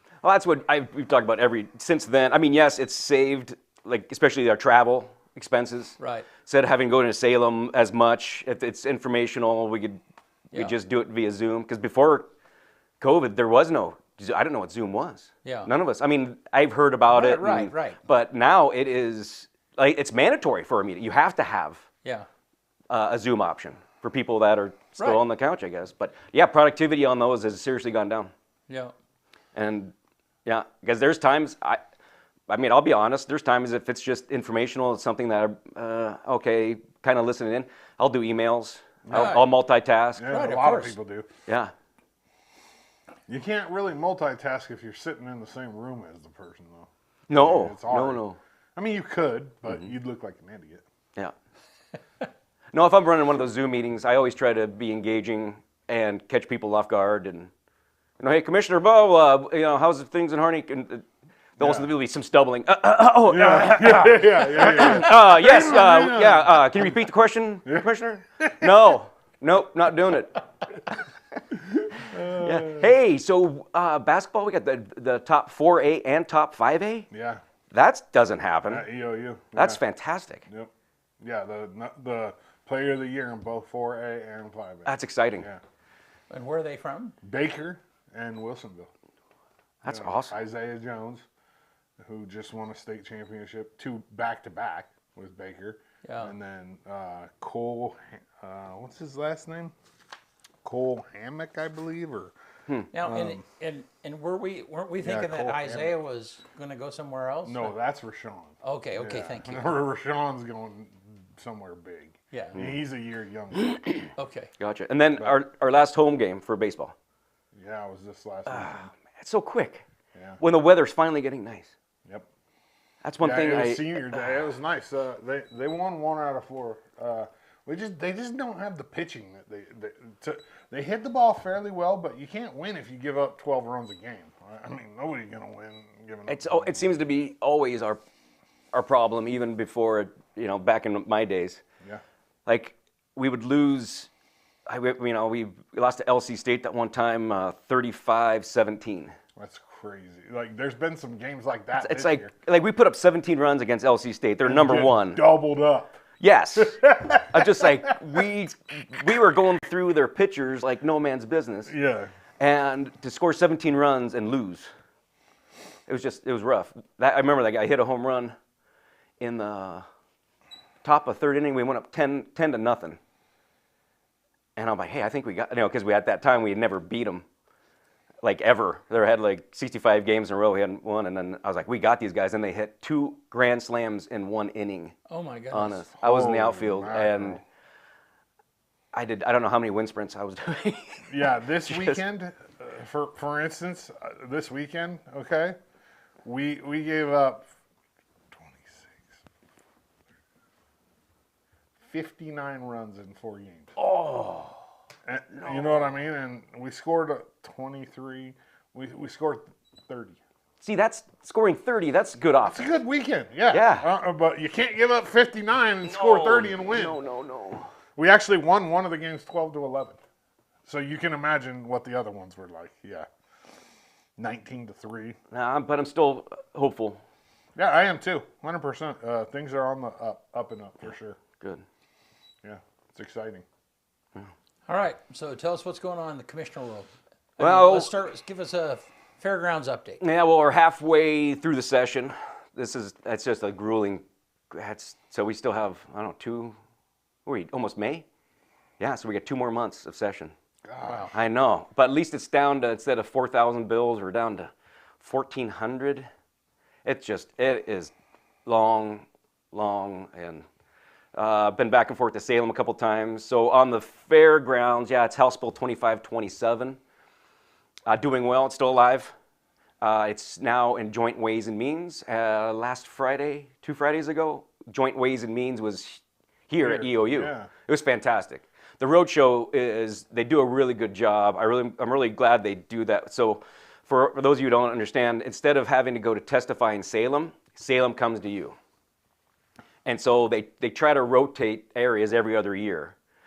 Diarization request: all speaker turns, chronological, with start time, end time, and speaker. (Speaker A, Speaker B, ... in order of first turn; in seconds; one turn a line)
Speaker A: 0.2-10.0
Speaker B: 6.0-6.3
Speaker A: 10.5-12.3
Speaker A: 13.0-21.9
Speaker B: 15.4-15.7
Speaker B: 17.1-18.0
Speaker A: 22.9-28.3
Speaker A: 29.5-29.9
Speaker A: 30.4-31.8
Speaker A: 32.5-40.3
Speaker C: 39.0-39.5
Speaker B: 39.1-39.4
Speaker C: 40.2-41.3
Speaker B: 40.2-41.0
Speaker A: 41.5-41.7
Speaker C: 43.3-50.8
Speaker A: 47.3-48.4
Speaker A: 49.7-49.9
Speaker A: 52.7-57.5
Speaker A: 58.2-61.0
Speaker A: 61.6-70.4
Speaker C: 61.6-61.9
Speaker C: 63.2-66.9
Speaker C: 68.4-68.7
Speaker C: 71.5-72.9
Speaker A: 72.3-77.1
Speaker C: 77.1-77.4
Speaker A: 77.7-78.8
Speaker C: 78.7-79.8
Speaker A: 79.5-80.4
Speaker C: 80.5-85.6
Speaker A: 84.8-85.5
Speaker B: 86.3-87.1
Speaker C: 87.2-88.9
Speaker A: 89.8-90.3
Speaker C: 89.9-91.2
Speaker C: 92.0-99.7
Speaker B: 96.0-96.3
Speaker C: 100.6-102.3
Speaker B: 102.9-107.7
Speaker C: 103.0-103.4
Speaker C: 105.0-106.0
Speaker C: 107.4-113.7
Speaker B: 108.6-109.8
Speaker B: 112.3-112.6
Speaker A: 112.5-112.8
Speaker A: 113.7-114.1
Speaker B: 114.2-114.5
Speaker A: 114.6-116.9
Speaker C: 117.5-118.9
Speaker A: 118.5-119.8
Speaker C: 120.1-120.4
Speaker A: 120.4-121.7
Speaker A: 123.0-124.4
Speaker C: 123.2-136.7
Speaker A: 136.3-138.0
Speaker A: 138.7-141.6
Speaker A: 142.4-144.1
Speaker A: 144.7-149.1
Speaker C: 149.3-152.3
Speaker A: 151.7-155.2
Speaker C: 154.4-156.0
Speaker A: 156.2-161.7
Speaker C: 156.6-158.0
Speaker C: 161.7-162.1
Speaker A: 162.4-164.7
Speaker A: 165.9-168.3
Speaker A: 169.2-169.8
Speaker A: 170.8-173.0
Speaker A: 174.6-177.2
Speaker A: 178.2-184.9
Speaker B: 185.1-185.8
Speaker A: 185.5-187.4
Speaker C: 186.0-187.4
Speaker A: 188.9-192.0
Speaker C: 191.1-195.6
Speaker C: 196.2-197.5
Speaker C: 198.3-199.2
Speaker C: 201.8-203.7
Speaker A: 203.8-204.6
Speaker C: 205.1-210.2
Speaker A: 205.3-205.9
Speaker A: 210.6-212.7
Speaker C: 212.4-217.0
Speaker A: 213.5-213.9
Speaker A: 215.8-217.7
Speaker C: 217.9-220.0
Speaker C: 220.7-223.1
Speaker C: 224.2-225.2
Speaker A: 225.3-227.0
Speaker C: 227.6-231.2
Speaker C: 232.4-233.4
Speaker B: 234.7-240.0
Speaker A: 237.4-237.9
Speaker A: 240.0-246.6
Speaker A: 247.2-248.0
Speaker A: 248.8-250.3
Speaker C: 250.6-251.1
Speaker A: 251.1-256.1
Speaker A: 256.8-257.9
Speaker A: 258.4-260.4
Speaker A: 261.1-266.8
Speaker A: 267.9-269.1
Speaker A: 269.8-288.6
Speaker C: 276.6-277.5
Speaker A: 289.8-292.9